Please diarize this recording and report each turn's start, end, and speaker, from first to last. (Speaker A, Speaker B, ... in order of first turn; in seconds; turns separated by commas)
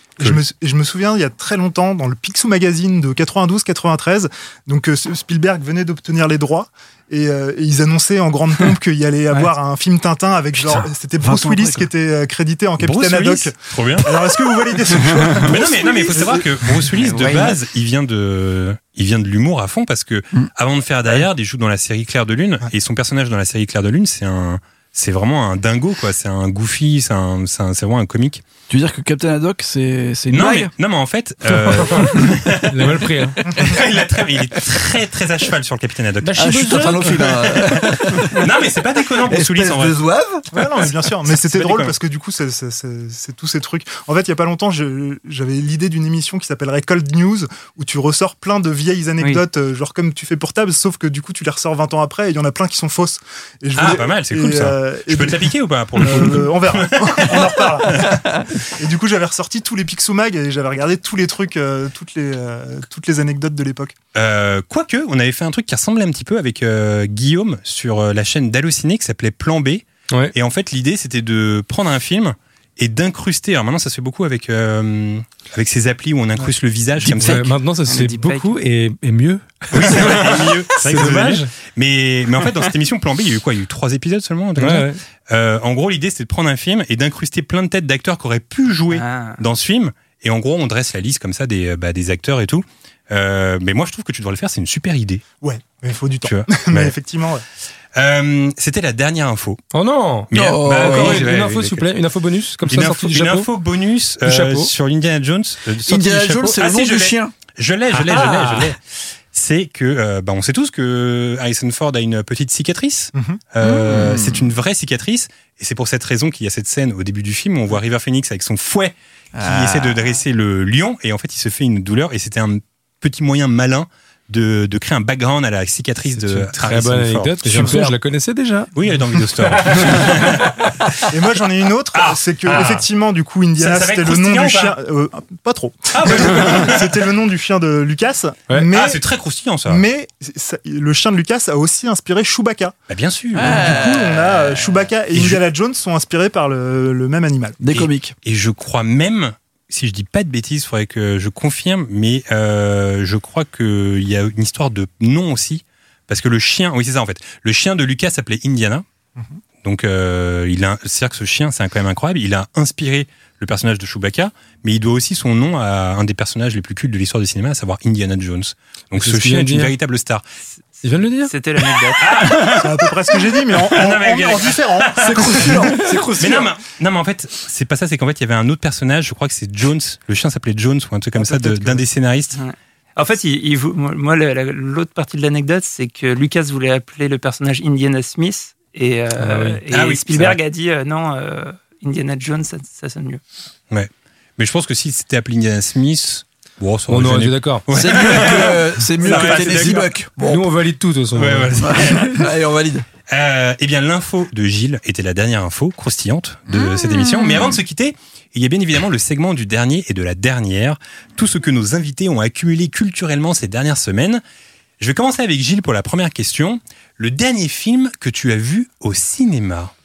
Speaker A: 0.2-17.3, Speaker B: 11.2-11.8, Speaker C: 12.8-14.3, Speaker C: 15.3-28.4, Speaker D: 17.0-17.5, Speaker B: 28.7-30.7, Speaker C: 30.3-33.1, Speaker E: 32.7-33.5, Speaker B: 33.4-33.7, Speaker C: 33.6-40.0, Speaker E: 36.2-37.6, Speaker B: 36.4-38.4, Speaker B: 39.1-40.5, Speaker A: 40.5-63.9, Speaker C: 41.3-41.9, Speaker C: 53.8-58.1, Speaker B: 57.8-58.4, Speaker C: 64.1-77.5, Speaker E: 77.0-81.5, Speaker D: 77.8-78.5, Speaker C: 79.7-95.2, Speaker E: 84.6-85.0, Speaker D: 88.9-89.4, Speaker A: 95.4-97.4, Speaker C: 96.2-96.9, Speaker C: 98.0-99.6, Speaker E: 99.7-103.5, Speaker C: 100.3-101.9, Speaker B: 100.3-101.3, Speaker C: 102.6-108.8, Speaker E: 104.2-104.7, Speaker B: 105.8-107.3, Speaker E: 107.9-108.7, Speaker C: 109.3-127.8, Speaker A: 113.1-113.4, Speaker B: 113.6-114.5, Speaker B: 119.3-120.1, Speaker E: 126.1-130.7, Speaker A: 127.5-127.9, Speaker C: 128.7-130.6, Speaker A: 131.1-139.0, Speaker C: 131.9-132.8, Speaker C: 133.6-134.8, Speaker C: 135.9-136.9, Speaker C: 138.7-139.8, Speaker A: 139.7-142.8, Speaker C: 142.9-143.8, Speaker B: 143.3-144.4, Speaker A: 143.4-147.6, Speaker C: 145.1-145.4, Speaker B: 147.6-148.1, Speaker C: 147.7-158.8, Speaker C: 159.6-170.2, Speaker E: 168.9-169.7, Speaker E: 170.8-171.3, Speaker D: 171.2-172.3, Speaker C: 172.0-175.6, Speaker A: 172.5-175.7, Speaker B: 175.0-176.5, Speaker C: 176.2-182.4, Speaker A: 181.2-181.8, Speaker D: 182.3-193.2, Speaker E: 189.2-189.6, Speaker C: 189.7-190.4, Speaker C: 193.7-200.0, Speaker E: 196.9-197.8, Speaker B: 197.7-200.6, Speaker E: 200.2-201.8, Speaker C: 201.1-202.3, Speaker B: 201.6-202.8, Speaker C: 203.1-214.2, Speaker B: 206.5-207.6, Speaker C: 214.8-219.7